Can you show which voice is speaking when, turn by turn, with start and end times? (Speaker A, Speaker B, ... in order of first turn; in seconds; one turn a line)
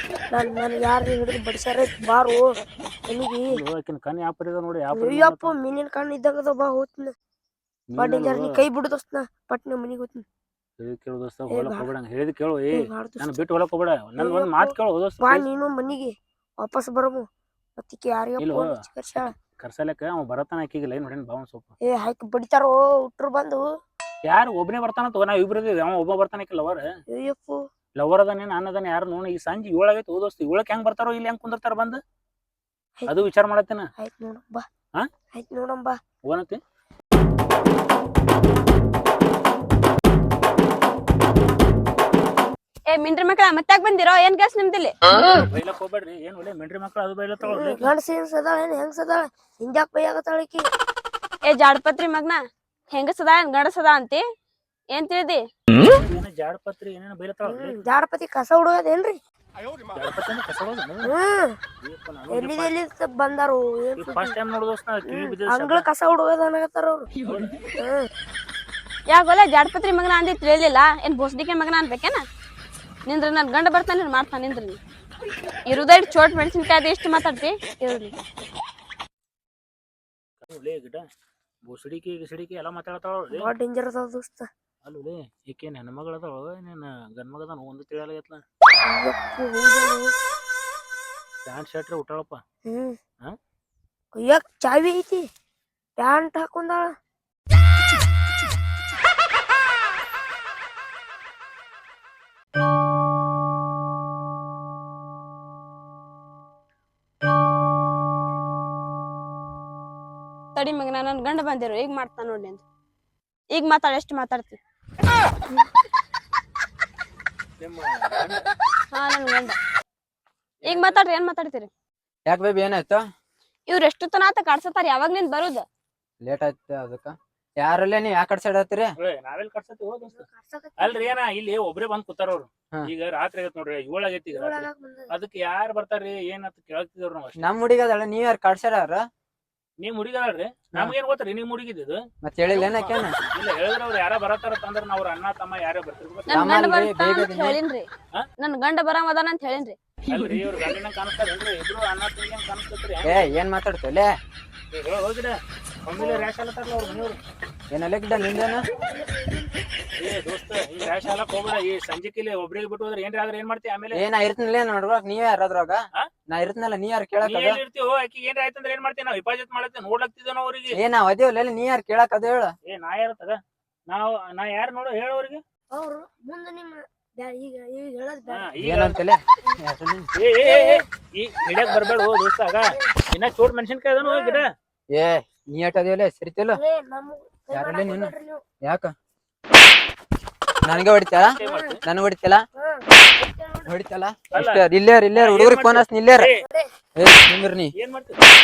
Speaker A: 0.3-2.5
Speaker A: 3.1-3.6
Speaker B: 3.5-5.5
Speaker A: 4.9-7.1
Speaker B: 7.9-8.6
Speaker A: 8.0-10.2
Speaker B: 10.8-15.4
Speaker A: 11.5-11.9
Speaker A: 12.7-13.4
Speaker A: 14.2-17.2
Speaker A: 17.8-19.3
Speaker B: 18.4-18.7
Speaker B: 19.6-21.7
Speaker A: 21.9-23.6
Speaker B: 24.3-26.9
Speaker A: 27.1-27.6
Speaker B: 28.0-32.0
Speaker B: 33.1-33.9
Speaker A: 34.0-34.6
Speaker A: 35.3-36.0
Speaker B: 36.3-36.6
Speaker C: 42.9-45.0
Speaker B: 45.2-47.9
Speaker A: 47.4-50.7
Speaker C: 51.5-52.4
Speaker C: 52.9-54.2
Speaker C: 54.9-55.4
Speaker B: 55.9-57.8
Speaker A: 57.5-59.2
Speaker B: 60.0-61.1
Speaker A: 61.0-61.6
Speaker B: 61.8-62.7
Speaker A: 62.3-64.4
Speaker B: 64.0-65.8
Speaker A: 65.1-67.1
Speaker B: 67.2-67.6
Speaker A: 67.8-68.1
Speaker C: 69.1-72.2
Speaker C: 73.1-74.8
Speaker C: 75.7-78.2
Speaker B: 80.4-81.0
Speaker B: 81.7-83.5
Speaker A: 83.3-84.5
Speaker B: 84.8-88.4
Speaker A: 88.9-90.1
Speaker B: 91.5-92.4
Speaker A: 92.7-93.0
Speaker A: 94.2-95.2
Speaker A: 96.0-96.9
Speaker C: 110.5-112.6
Speaker C: 113.5-114.6
Speaker B: 117.6-118.5
Speaker C: 118.9-119.6
Speaker B: 120.6-121.0
Speaker C: 120.7-121.7
Speaker D: 122.3-123.0
Speaker C: 123.7-125.7
Speaker D: 126.2-128.9
Speaker B: 129.0-130.2
Speaker A: 130.1-131.2
Speaker B: 130.8-137.4
Speaker A: 134.3-135.1
Speaker D: 137.4-139.1
Speaker B: 139.8-146.7
Speaker D: 142.2-143.1
Speaker C: 146.3-147.9
Speaker D: 146.3-147.6
Speaker C: 148.4-149.8
Speaker B: 150.1-153.2
Speaker D: 153.0-154.1
Speaker B: 154.7-157.2
Speaker A: 156.0-156.3
Speaker D: 157.7-158.7
Speaker A: 158.7-159.7
Speaker B: 160.0-164.0
Speaker D: 163.9-167.6
Speaker B: 167.2-170.8
Speaker D: 170.7-172.5
Speaker B: 172.7-173.4
Speaker B: 173.9-175.4
Speaker A: 175.7-178.5
Speaker B: 178.3-179.0
Speaker D: 178.6-180.1
Speaker B: 180.2-184.5
Speaker A: 180.4-180.8
Speaker A: 184.0-184.4
Speaker D: 184.9-186.6
Speaker A: 186.6-188.4
Speaker D: 187.5-188.9
Speaker D: 190.6-192.4
Speaker B: 191.2-191.8
Speaker A: 191.4-191.8
Speaker A: 192.6-193.7
Speaker D: 193.7-196.3
Speaker B: 194.3-194.6
Speaker B: 195.2-196.4
Speaker A: 196.4-196.7
Speaker D: 197.0-197.7
Speaker B: 197.8-198.2